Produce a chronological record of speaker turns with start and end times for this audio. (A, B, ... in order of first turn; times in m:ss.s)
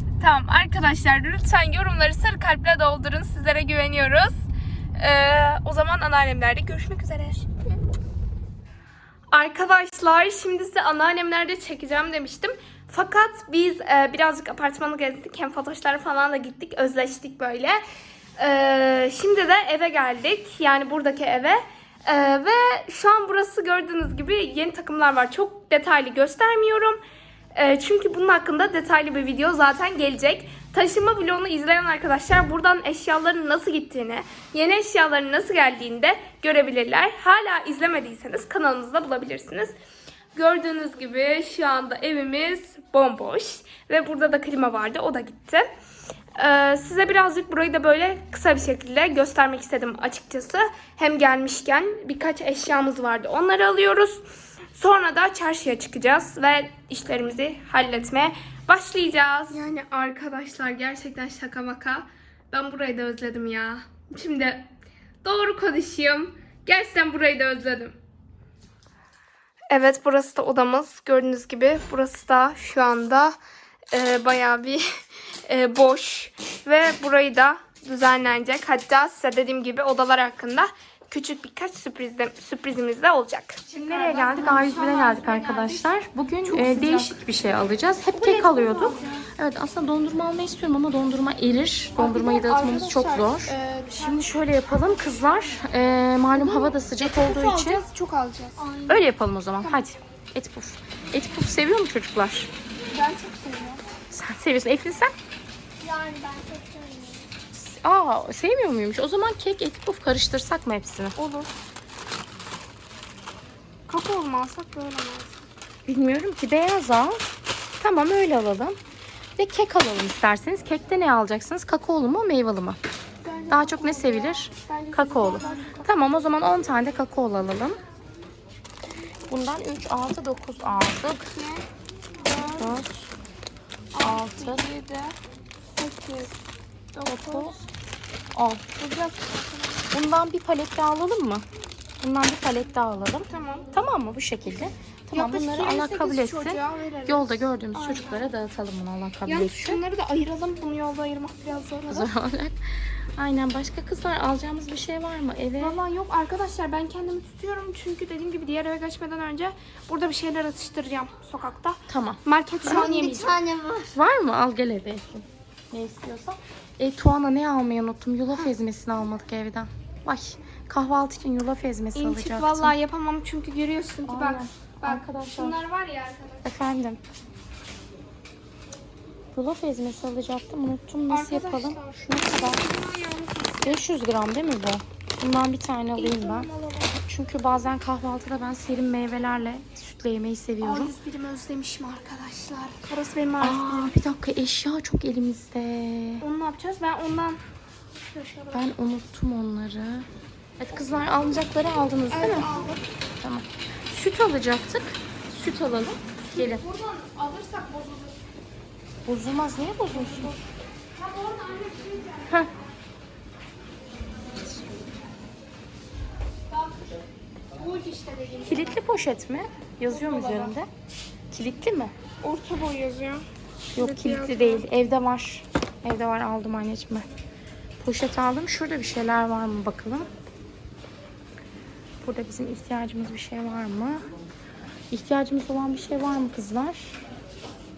0:00.2-0:07.4 A
0:09.3-0:17.8 A
0:18.4-0:27.0 A
0:27.5-0:39.7 A
0:40.3-0:45.6 A
0:46.4-0:54.2 A
0:54.7-1:04.7 A
1:05.2-1:08.0 A
1:09.7-1:13.4 A
1:13.9-1:14.8 A
1:15.4-1:25.9 A
1:23.7-1:37.8 B
1:26.4-1:27.2 A
1:28.1-1:29.3 A
1:32.0-1:34.2 A
1:36.3-1:38.6 A
1:38.6-1:39.0 C
1:38.9-1:42.5 B
1:39.6-1:39.9 A
1:42.9-1:43.8 A
1:44.1-1:45.1 B
1:45.8-1:47.3 C
1:47.5-1:51.2 B
1:51.2-1:51.5 A
1:53.9-1:55.4 A
1:55.8-1:57.2 B
1:57.8-1:58.8 B
1:59.4-2:02.8 B
2:03.2-2:05.8 A
2:03.5-2:07.8 B
2:09.3-2:11.3 B
2:11.3-2:11.6 A
2:12.2-2:12.8 A
2:12.6-2:13.1 B
2:13.9-2:15.1 A
2:14.0-2:14.6 B
2:15.7-2:16.3 A
2:16.9-2:17.6 A
2:17.0-2:17.5 B
2:18.3-2:18.6 B
2:18.8-2:19.9 A
2:19.9-2:21.4 B
2:22.0-2:29.8 B
2:23.3-2:23.7 A
2:25.1-2:28.3 A
2:29.2-2:32.1 A
2:31.9-2:32.6 B
2:33.2-2:35.8 B
2:35.6-2:43.4 A
2:41.9-2:42.2 B
2:42.6-2:44.0 C
2:43.9-2:52.7 B
2:51.9-2:56.5 A
2:54.0-2:55.6 B
2:56.4-2:57.0 B
2:59.3-3:02.6 B
3:01.1-3:03.8 A
3:03.6-3:06.5 B
3:05.9-3:06.9 A
3:07.0-3:10.9 B
3:10.6-3:13.9 A
3:13.4-3:16.2 B
3:16.2-3:17.4 A
3:18.1-3:18.7 A
3:18.5-3:20.1 B
3:20.6-3:22.5 B
3:22.1-3:22.8 A
3:23.2-3:26.6 B
3:26.3-3:28.2 A
3:29.0-3:30.3 B
3:29.9-3:30.4 A
3:31.0-3:32.2 A
3:37.5-3:38.8 A
3:38.4-3:40.7 B
3:39.9-3:40.6 A
3:41.3-3:41.9 B
3:42.2-3:43.2 A
3:43.7-3:47.0 B
3:43.8-3:44.6 A
3:47.8-3:50.1 B
3:52.0-3:54.0 B
3:54.9-3:57.0 B